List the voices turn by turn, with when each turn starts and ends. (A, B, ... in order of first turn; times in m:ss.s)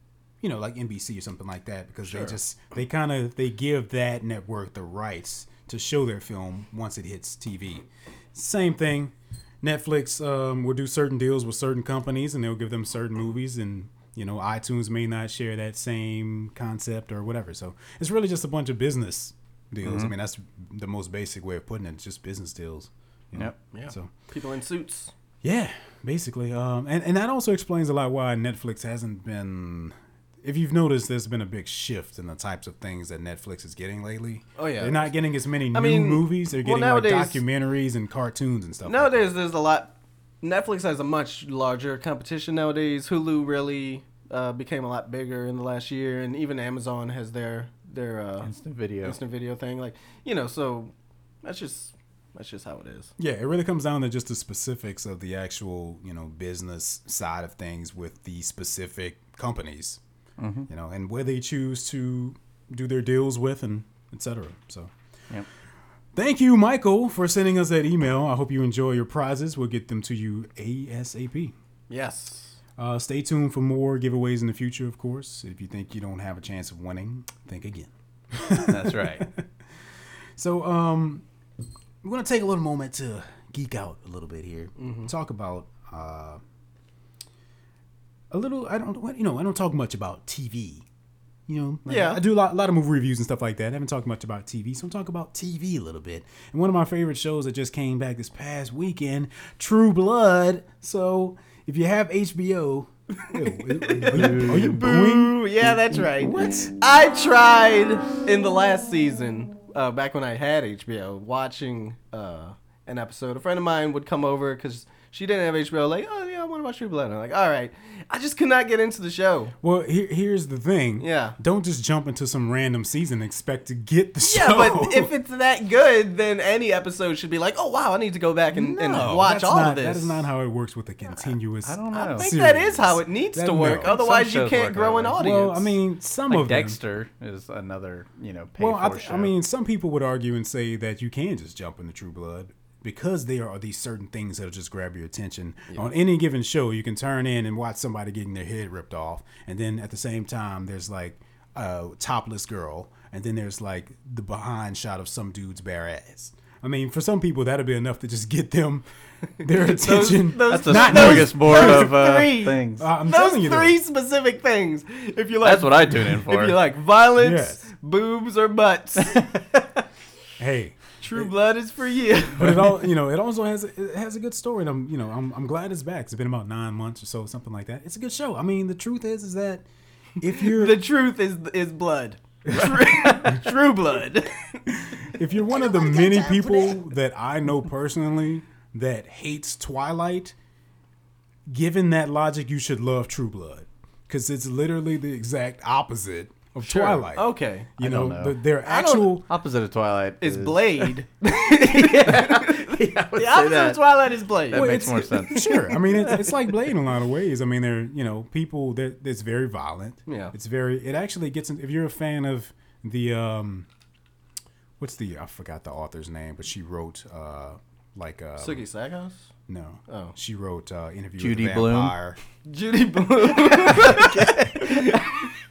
0:00.4-0:24.1 A
0:19.8-0:20.1 B
0:23.7-0:25.1 C
0:25.4-0:39.3 A
0:34.6-0:35.1 C
0:35.7-0:37.4 C
0:38.8-0:48.5 C
0:48.4-0:49.2 B
0:49.0-0:53.1 C
0:53.2-1:00.0 A
1:00.4-1:00.7 B
1:00.7-1:04.9 A
1:06.1-1:11.5 A
1:11.9-1:12.6 C
1:12.8-1:19.4 A
1:18.6-1:19.3 B
1:20.4-1:21.2 A
1:22.0-1:26.4 A
1:24.8-1:25.1 C
1:28.3-1:30.8 A
1:31.5-1:46.7 A
1:31.8-1:32.2 C
1:43.2-1:59.5 C
1:59.6-2:05.1 A
2:01.0-2:01.4 C
2:04.2-2:10.2 C
2:08.5-2:13.9 A
2:11.6-2:12.4 B
2:11.9-2:15.7 C
2:13.6-2:15.2 B
2:15.2-2:16.8 A
2:16.3-2:19.3 B
2:18.6-2:38.8 A
2:39.4-2:42.0 A
2:39.5-2:49.2 C
2:40.5-2:42.9 B
2:42.8-2:43.8 A
2:45.4-2:46.6 B
2:47.2-2:47.7 A
2:50.4-2:51.3 A
2:51.0-2:52.7 C
2:52.4-2:59.6 A
3:00.2-3:00.8 A
3:00.4-3:04.6 C
3:02.5-3:03.4 A
3:04.6-3:10.3 A
3:11.5-3:19.3 A
3:16.6-3:17.7 C
3:17.8-3:18.4 B
3:18.6-3:19.1 C
3:19.2-3:21.0 B
3:20.2-3:26.1 C
3:21.6-3:25.6 B
3:24.5-3:33.7 A
3:30.1-3:30.3 C
3:34.8-3:38.6 A
3:38.4-3:39.2 C
3:39.5-3:42.2 A
3:39.9-3:40.1 C
3:41.2-3:41.9 B
3:42.4-3:45.2 C
3:43.4-3:45.0 B